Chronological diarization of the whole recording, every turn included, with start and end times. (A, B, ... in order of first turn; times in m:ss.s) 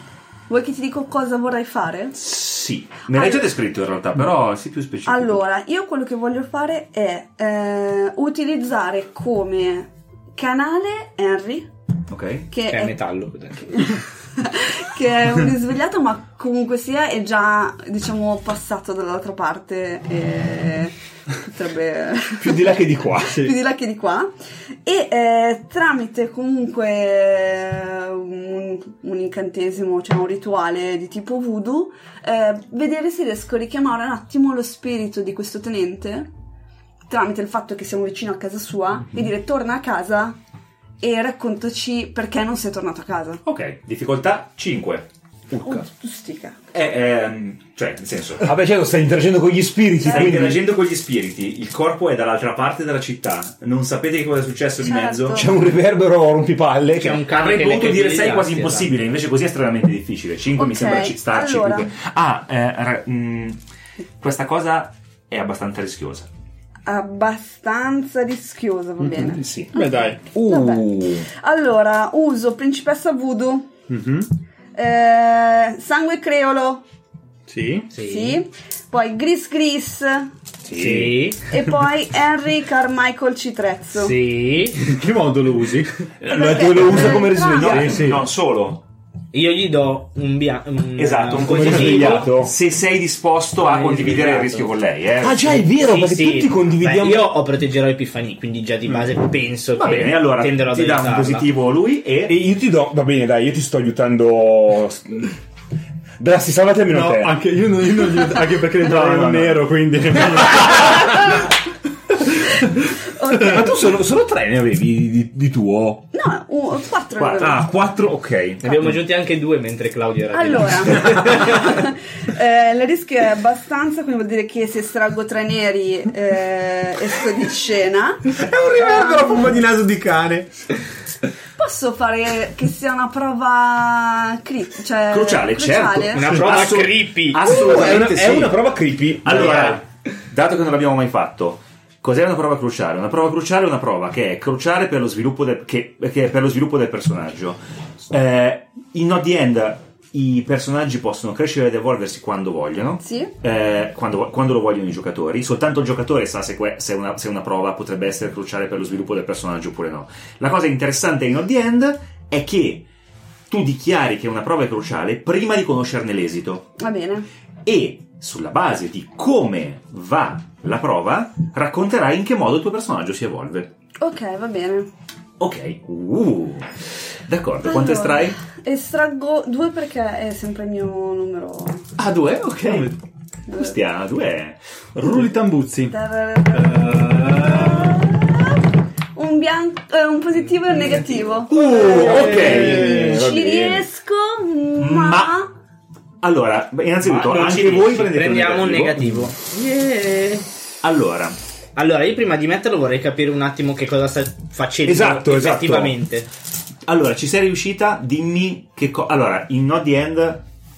0:00.5-0:02.2 A
0:02.1-0:05.4 B
0:03.1-0:03.4 A
0:05.0-0:11.7 A
0:12.1-0:12.5 B
0:12.5-0:13.0 A
0:12.7-0:14.0 C
0:13.7-0:24.3 A
0:22.4-0:23.5 D
0:24.8-0:36.3 A
0:37.1-0:40.4 A
0:41.0-0:43.4 A
0:43.4-0:45.1 B
0:45.6-0:46.6 A
0:46.7-0:48.5 B
0:48.4-0:50.6 D
0:50.0-0:55.5 B
0:54.8-0:55.6 A
0:55.3-0:57.2 D
0:57.0-0:58.9 C
0:57.3-1:03.6 B
1:00.6-1:01.9 A
1:04.2-1:06.3 B
1:06.8-1:13.7 A
1:09.0-1:10.2 E
1:09.3-1:11.3 D
1:13.9-1:14.3 E
1:14.7-1:16.8 A
1:17.5-1:17.9 E
1:17.9-1:18.4 C
1:17.9-1:20.3 A
1:20.6-1:21.2 D
1:20.7-1:21.5 C
1:21.5-1:24.2 A
1:24.0-1:25.0 C
1:24.8-1:26.1 E
1:26.2-1:28.1 D
1:26.3-1:27.9 A
1:27.6-1:28.8 B
1:27.7-1:28.2 E
1:29.3-1:32.3 C
1:31.0-1:35.6 B
1:31.4-1:32.5 D
1:33.6-1:34.7 C
1:35.2-1:37.3 D
1:35.7-1:41.4 C
1:39.8-1:42.4 B
1:42.2-1:45.3 D
1:46.2-1:47.4 D
1:46.9-1:51.4 E
1:48.8-1:49.7 D
1:53.1-1:53.9 A
1:53.4-1:56.0 D
1:56.1-1:57.6 A
1:57.2-1:57.5 B
1:57.4-1:58.9 D
1:58.6-2:01.9 C
2:00.3-2:09.6 A
2:08.3-2:10.5 D
2:09.0-2:09.4 E
2:11.6-2:16.4 A
2:15.1-2:18.6 B
2:16.1-2:18.3 C
2:17.4-2:19.8 D
2:19.2-2:42.9 B
2:19.3-2:19.8 C
2:33.0-2:33.3 A
2:43.5-2:46.7 B
2:46.8-2:47.2 A
2:47.6-2:53.7 B
2:54.0-2:54.9 A
2:55.4-2:58.4 B
2:57.6-3:01.9 A
3:02.0-3:03.0 B
3:03.5-3:03.7 A
3:03.5-3:04.6 B
3:04.9-3:05.9 E
3:05.9-3:15.5 A
3:06.5-3:08.0 E
3:11.5-3:13.9 D
3:11.5-3:13.0 B
3:11.8-3:12.5 C
3:14.8-3:15.4 B
3:16.2-3:19.3 B
3:17.0-3:20.5 C
3:20.8-3:21.4 B
3:21.8-3:26.3 C
3:24.8-3:26.0 D
3:26.8-3:30.4 B